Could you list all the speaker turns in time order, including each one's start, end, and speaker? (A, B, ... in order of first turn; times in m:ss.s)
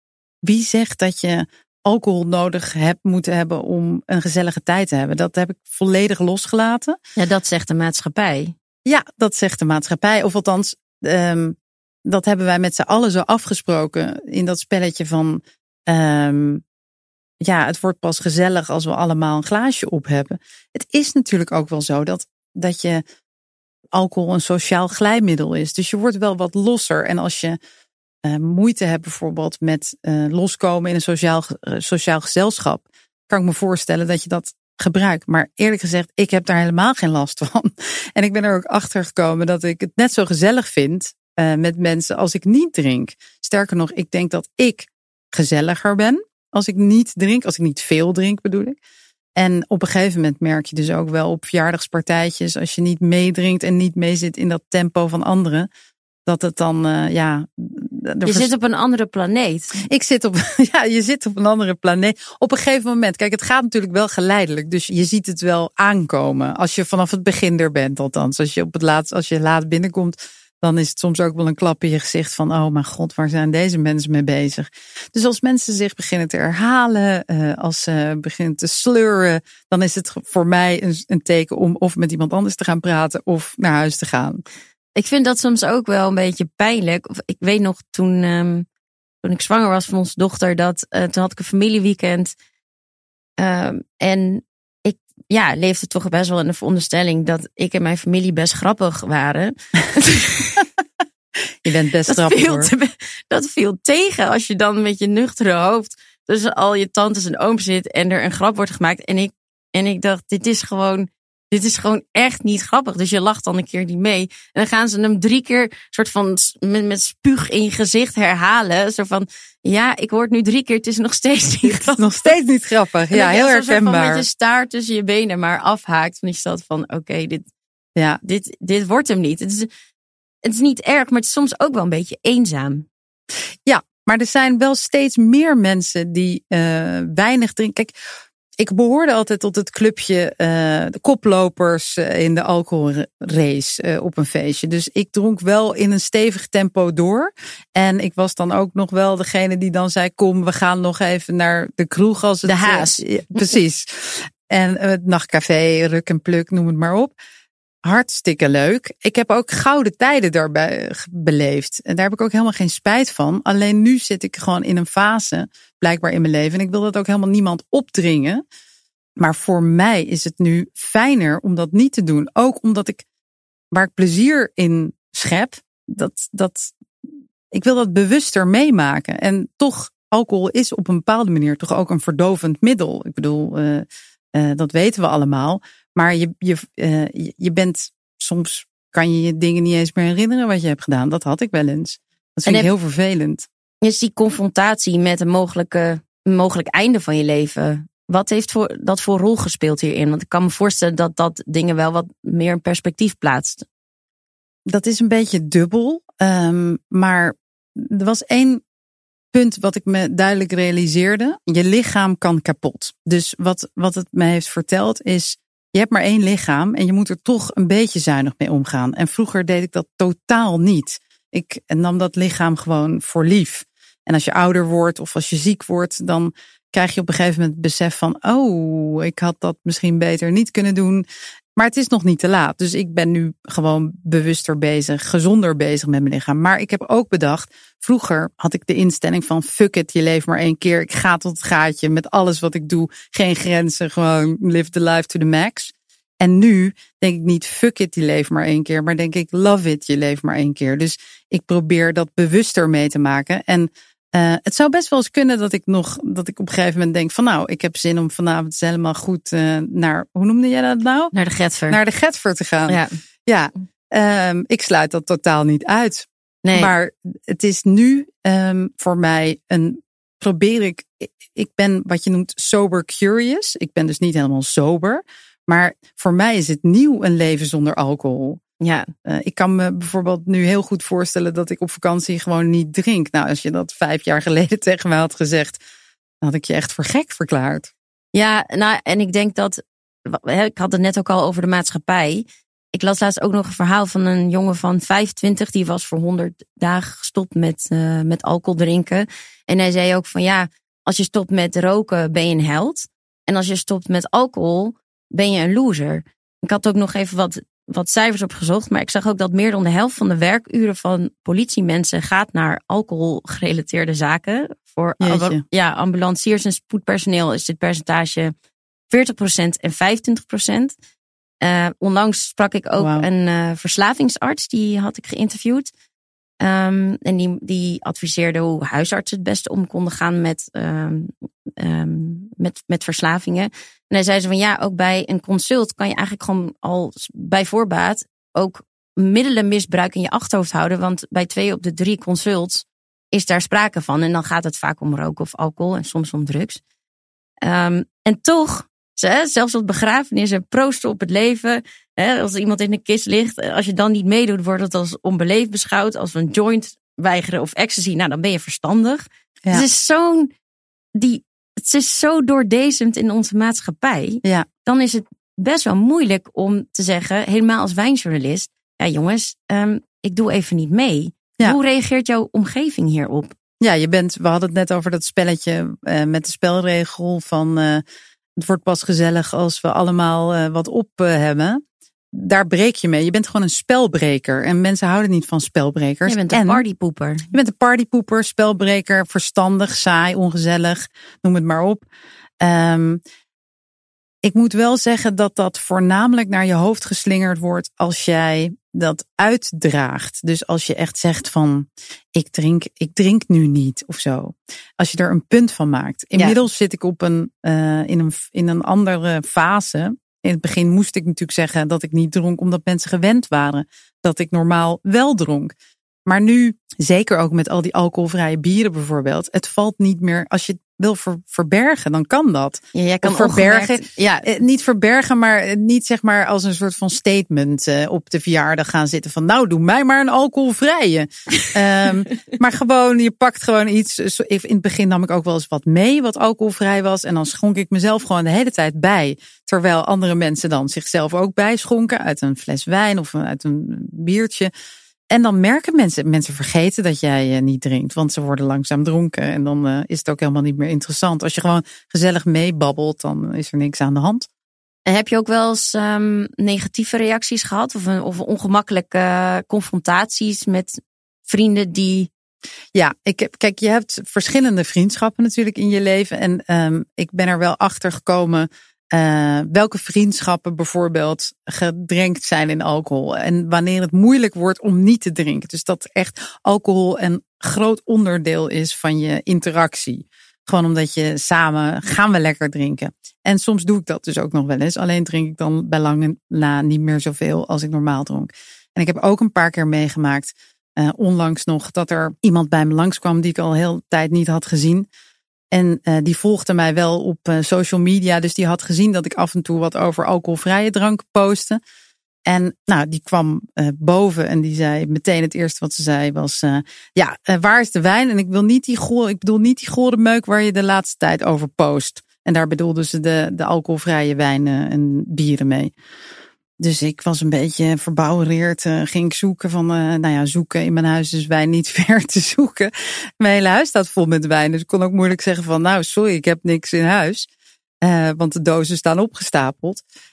0:00.4-0:07.0 A
0:07.2-0:08.5 B
0:08.8-0:16.6 A
0:17.4-0:23.0 A
0:23.9-0:27.6 A
0:28.2-0:48.8 A
0:49.4-0:55.7 A
0:56.2-0:58.5 A
0:58.2-0:59.7 B
0:59.7-1:24.4 A
1:25.0-1:28.6 B
1:29.2-1:32.3 B
1:33.4-1:40.6 B
1:41.6-1:42.7 A
1:42.1-2:02.0 B
2:01.6-2:04.2 A
2:03.1-2:07.4 B
2:08.0-2:08.2 A
2:08.2-2:09.7 B
2:10.4-2:12.8 B
2:13.6-2:17.9 A
2:18.6-2:37.1 A
2:32.4-2:33.5 B
2:37.8-2:48.4 A
2:49.2-2:53.0 A
2:53.7-2:56.7 A
2:57.5-3:13.4 A
3:12.4-3:12.7 B
3:13.8-3:23.6 B
3:24.7-3:28.6 A
3:29.3-4:21.1 A
4:21.1-4:21.8 B
4:21.7-4:38.4 A
4:22.7-4:22.9 B
4:26.4-4:26.7 B
4:38.6-4:38.9 B
4:39.0-4:45.6 A
4:46.2-4:47.7 A
4:48.1-5:18.3 B
5:15.0-5:15.4 A
5:18.9-5:20.7 B
5:21.4-5:25.7 B
5:22.8-5:23.0 A
5:26.4-5:46.6 B
5:47.4-6:00.3 B
6:00.9-6:13.3 B
6:13.6-6:17.8 A
6:18.4-6:21.6 A
6:22.1-6:26.6 A
6:26.0-6:27.3 B
6:27.3-6:31.8 A
6:32.4-6:33.0 A
6:34.2-6:55.5 A
6:56.0-7:24.5 A
7:02.7-7:04.3 B
7:25.1-7:34.3 A
7:34.8-7:42.1 B
7:42.7-8:14.9 A
8:15.5-8:21.6 A
8:22.2-8:35.7 A
8:36.6-8:47.3 A
8:47.8-8:49.8 A